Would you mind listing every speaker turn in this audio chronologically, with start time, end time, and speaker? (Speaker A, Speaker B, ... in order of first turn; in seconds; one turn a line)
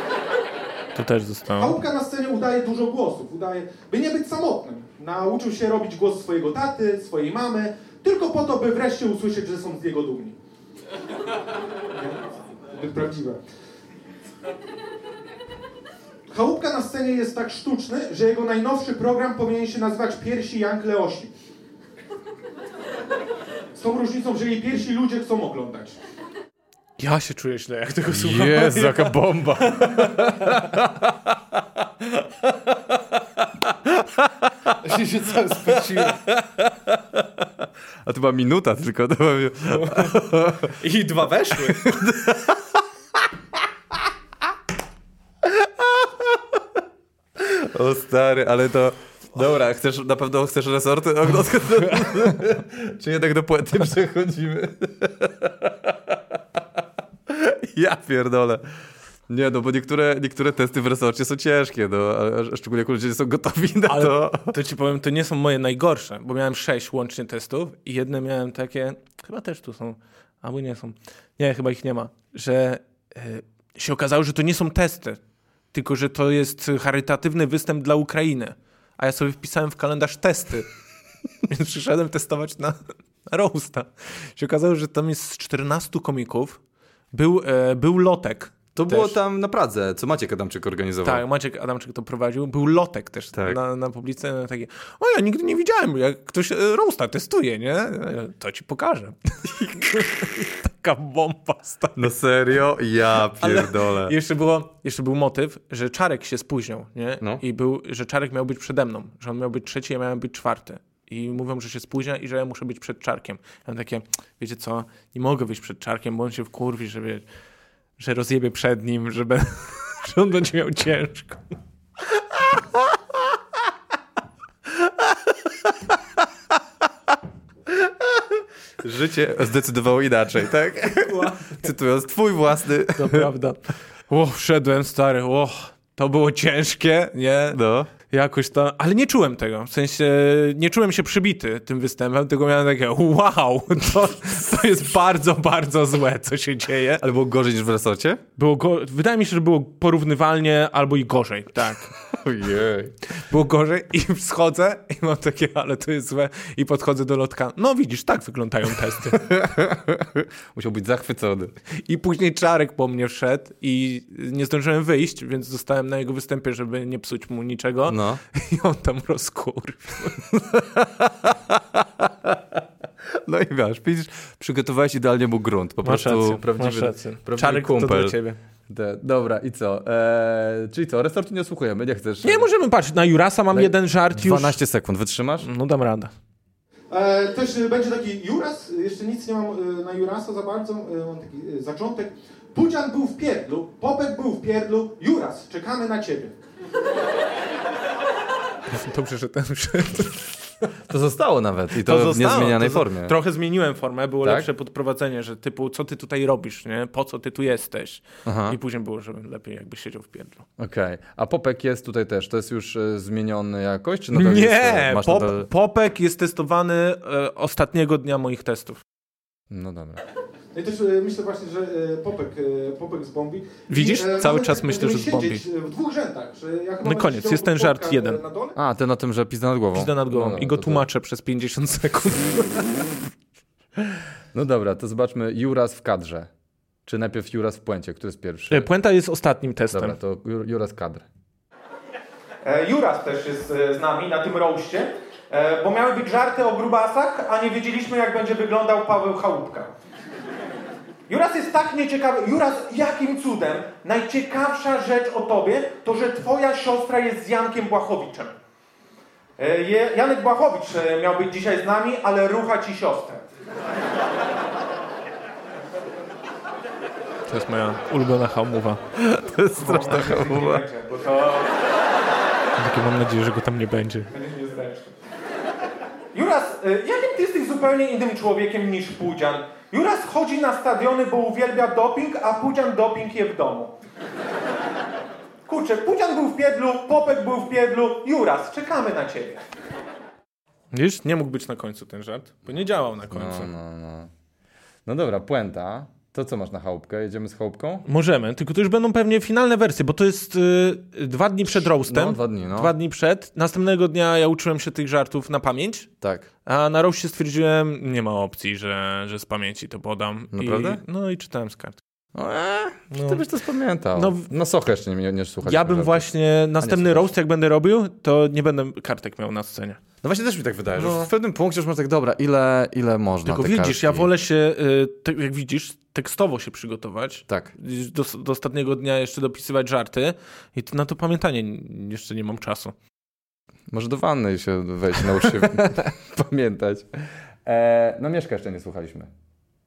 Speaker A: 0.9-1.8
Speaker B: 1.6-10.4
Speaker B: 11.9-13.4
Speaker B: 16.3-21.3
Speaker B: 23.7-26.0
Speaker A: 27.0-30.6
Speaker C: 28.1-34.7
Speaker A: 34.8-36.2
Speaker C: 35.7-37.5
Speaker C: 38.0-40.8
Speaker A: 39.7-40.1
Speaker A: 40.8-42.0
Speaker C: 41.5-42.8
Speaker C: 45.4-46.6
Speaker C: 47.4-56.6
Speaker C: 57.3-58.6
Speaker C: 59.3-64.5
Speaker A: 63.9-75.2
Speaker A: 75.7-80.7
Speaker A: 81.4-86.6
Speaker A: 87.1-89.2
Speaker C: 88.8-91.2
Speaker A: 91.0-102.1
Speaker C: 102.0-104.1
Speaker A: 103.4-117.2
Speaker A: 118.0-121.5
Speaker C: 128.8-133.3
Speaker A: 130.9-131.6
Speaker A: 132.9-147.0
Speaker C: 137.5-137.9
Speaker C: 147.0-148.2
Speaker A: 148.4-151.9
Speaker C: 152.0-152.9
Speaker A: 153.1-159.3
Speaker C: 159.1-161.5
Speaker A: 161.7-170.3
Speaker C: 167.9-168.2
Speaker C: 170.3-178.2
Speaker A: 175.8-178.4
Speaker C: 178.7-182.5
Speaker A: 182.2-184.6
Speaker C: 183.5-185.5
Speaker A: 185.4-186.1
Speaker B: 186.9-196.3
Speaker A: 198.7-200.3
Speaker C: 200.8-203.2
Speaker A: 201.8-210.4
Speaker C: 208.2-208.6
Speaker C: 210.6-215.5
Speaker A: 214.1-218.8
Speaker C: 219.5-220.0
Speaker B: 220.5-228.6
Speaker A: 223.7-225.4
Speaker A: 226.8-228.2
Speaker C: 228.5-230.8
Speaker A: 229.7-232.9
Speaker C: 234.3-236.3
Speaker C: 236.8-238.7
Speaker A: 238.5-239.9
Speaker C: 239.7-241.1
Speaker B: 242.4-249.7
Speaker B: 251.1-258.3
Speaker B: 259.4-263.2
Speaker A: 267.3-268.9
Speaker C: 269.0-270.6
Speaker A: 269.5-271.4
Speaker B: 270.0-271.0
Speaker A: 272.6-274.1
Speaker B: 274.1-274.9
Speaker B: 276.1-283.7
Speaker B: 285.4-289.4
Speaker A: 290.7-293.5
Speaker C: 293.1-294.1
Speaker C: 294.9-297.9
Speaker A: 297.8-305.9
Speaker C: 301.5-302.7
Speaker C: 306.0-306.3
Speaker A: 306.4-311.8
Speaker C: 310.3-310.8
Speaker C: 312.1-317.1
Speaker A: 312.9-313.2
Speaker A: 313.9-314.3
Speaker A: 315.4-319.8
Speaker C: 320.0-324.1
Speaker A: 320.8-321.1
Speaker A: 323.2-332.7
Speaker C: 333.7-339.1
Speaker A: 335.2-335.8